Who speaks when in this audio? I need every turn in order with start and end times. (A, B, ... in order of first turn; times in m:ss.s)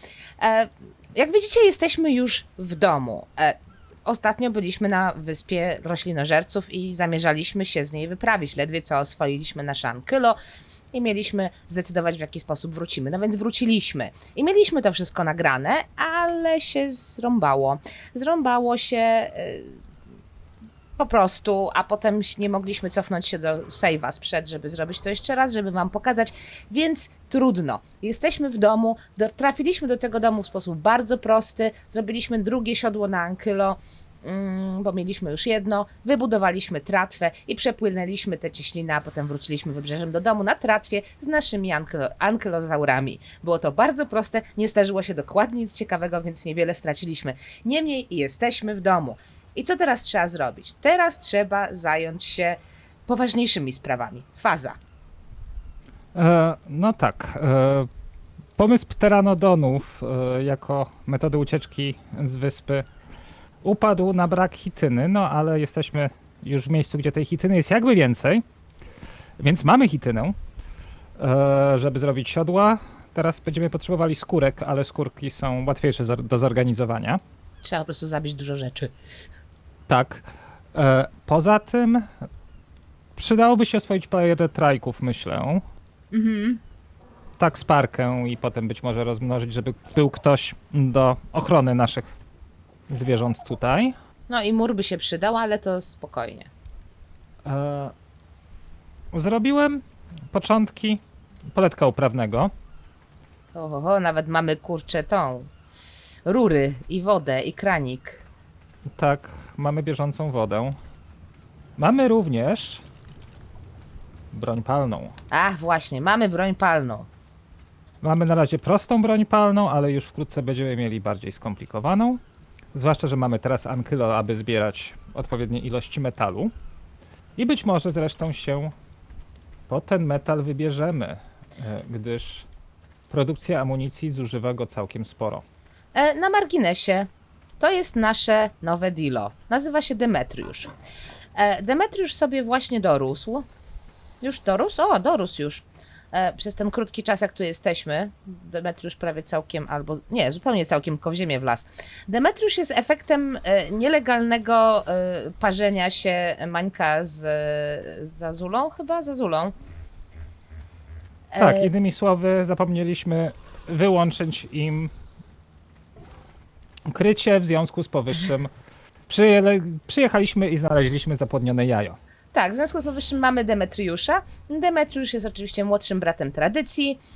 0:00.4-0:10.4 A
0:10.9-0:19.8 A
0:21.0-0:54.8 A
0:56.1-0:57.9 B
0:58.6-1:02.9 B
1:03.6-1:08.4 B
1:09.4-1:10.4 B
1:11.2-1:17.2 B
1:17.6-1:18.9 A
1:19.9-1:22.3 B
1:23.2-1:25.6 B
1:26.1-1:26.6 A
1:27.4-1:32.2 B
1:32.9-1:34.0 B
1:34.3-1:36.5 A
1:37.4-1:37.9 B
1:39.1-1:42.5 B
1:43.6-1:45.5 A
1:46.2-1:48.2 A
1:48.9-1:50.8 B
1:51.8-1:52.8 B
1:54.3-1:55.2 B
1:55.3-1:57.1 A
1:58.0-2:02.2 B
2:02.7-2:06.5 B
2:07.4-2:08.8 B
2:09.7-2:12.5 B
2:13.1-2:15.4 B
2:15.9-2:20.7 A
2:21.4-2:23.5 A
2:24.2-2:39.6 A
2:41.3-2:41.7 A
2:41.4-2:44.9 B
2:46.9-2:48.5 B
2:49.1-2:52.0 B
2:52.3-2:57.0 A